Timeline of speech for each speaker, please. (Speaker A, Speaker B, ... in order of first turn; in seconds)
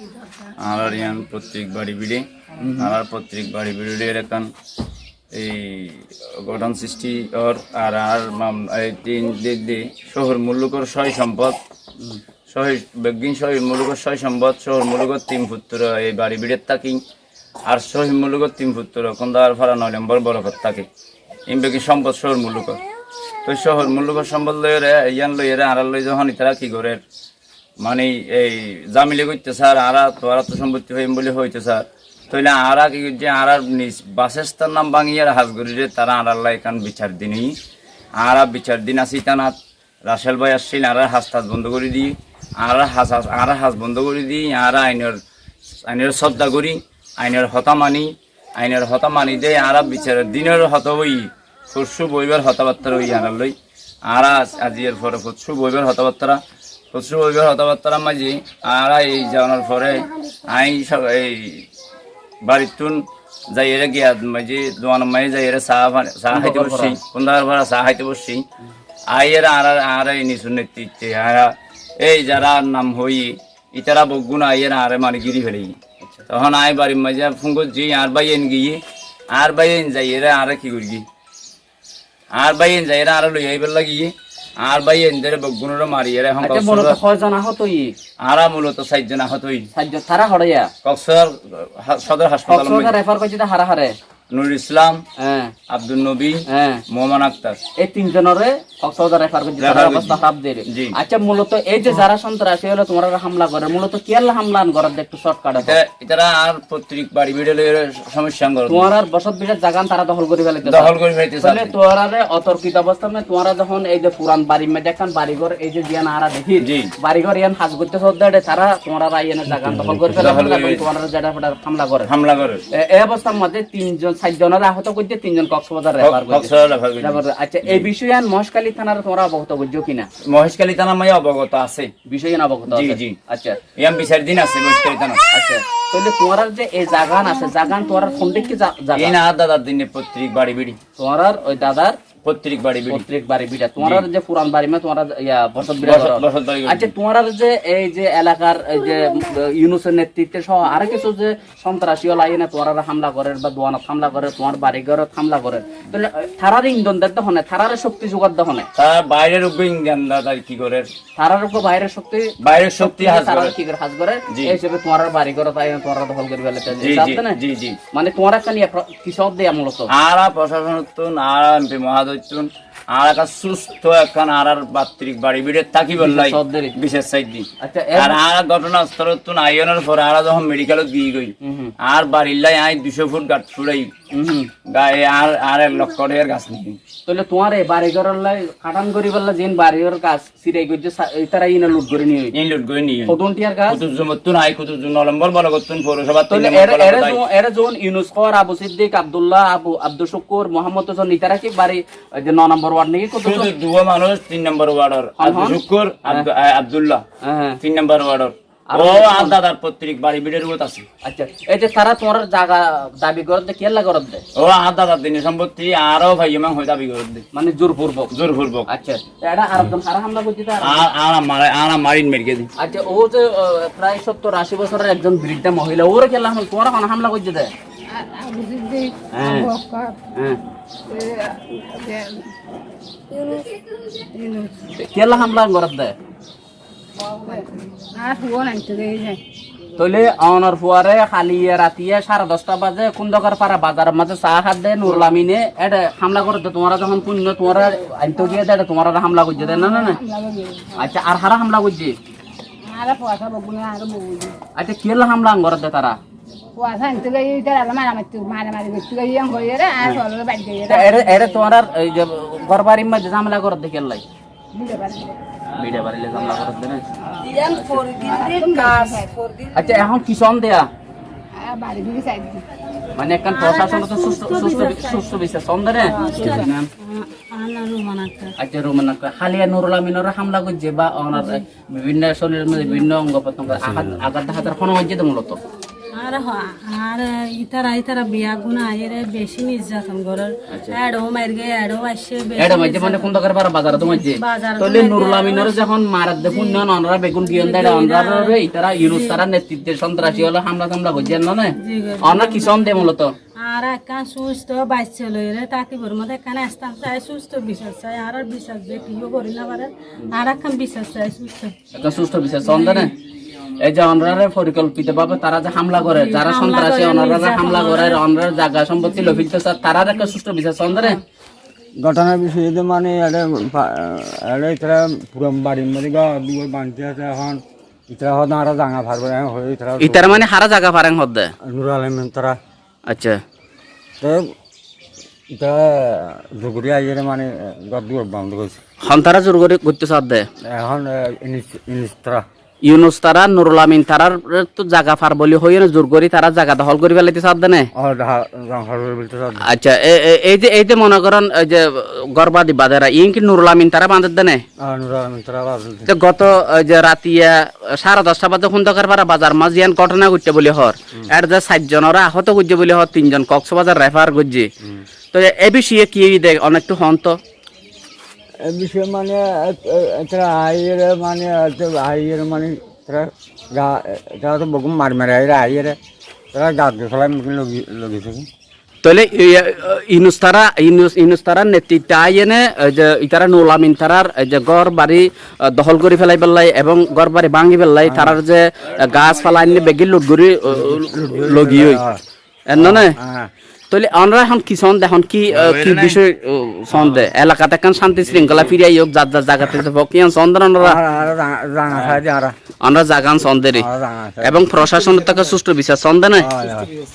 Speaker A: 0.6-2.2, 2.8-4.5, 5.3-11.6, 12.5-17.0, 17.7-20.9, 21.5-22.8, 23.4-27.0, 27.8-37.5, 38.2-39.5, 40.1-45.2, 45.9-53.5, 54.1-56.4, 56.9-61.6, 62.4-68.4, 69.1-75.8, 76.3-78.8, 79.3-81.0, 82.3-87.0, 88.2-89.7, 90.8-93.0, 94.3-95.0, 95.7-97.6, 99.6-100.9, 105.6-108.9, 110.6-111.7, 116.6-116.9, 120.0-120.8, 122.0-122.6, 126.0-127.9, 130.3-131.9, 132.7-133.2, 133.8-135.2, 138.9-140.8, 142.2-143.0, 143.8-144.1, 145.6-146.9, 158.8-160.9, 162.4-163.5, 164.3-164.6, 166.8-167.8, 169.9-183.9, 184.7-186.8, 192.3-193.2, 193.7-197.2, 203.2-207.0, 207.6-210.8, 214.3-217.2, 218.1-218.7, 220.6-222.5, 388.8-389.6, 395.3-396.0, 396.7-397.1, 398.0-398.5
Speaker B: 2.6-2.9, 66.3-67.0, 86.4-87.9, 89.7-90.7, 92.5-94.0, 95.2-95.5, 96.5-96.8, 97.8-105.8, 108.7-122.1, 122.7-130.1, 132.1-133.6, 135.3-139.2, 141.0-142.0, 142.9-158.7, 161.2-167.4, 167.9-169.9, 176.0-176.7, 177.6-178.2, 181.4-181.7, 184.1-184.5, 187.1-192.3, 193.1-193.8, 196.3-203.5, 205.2-206.3, 207.2-207.6, 208.7-209.4, 211.0-214.2, 217.3-218.1, 218.7-220.8, 222.6-227.5, 229.1-229.5, 234.8-235.9, 239.8-250.0, 250.8-251.9, 254.5-256.0, 260.7-264.0, 265.5-267.9, 269.5-270.7, 272.9-276.7, 278.4-285.4, 290.5-290.8, 292.4-303.1, 311.7-312.9, 313.6-321.0, 329.8-331.3, 332.9-333.2, 338.8-340.2, 342.6-347.7, 349.4-354.4, 355.9-364.5, 365.1-367.2, 378.8-391.8, 392.5-392.9, 393.7-400.8, 402.6-403.7, 404.2-406.3
Speaker C: 227.9-230.0, 230.9-232.3, 233.1-234.7, 237.0-239.2, 249.4-250.8, 252.6-254.3, 256.5-261.5, 264.5-265.2, 267.9-269.1, 271.3-272.4
Speaker D: 267.3-269.6, 273.2-278.3, 285.9-296.7, 297.2-299.2, 300.0-300.3, 300.9-311.6, 312.4-312.9, 315.9-318.0
Speaker E: 321.8-330.2, 331.4-332.4, 334.0-334.3, 335.3-338.6, 340.4-342.2, 347.8-349.4, 354.6-355.9, 368.4-375.8, 376.3-378.2, 387.8-388.2, 390.7-392.0, 392.5-393.3, 400.6-402.3, 403.5-404.5, 406.2-406.7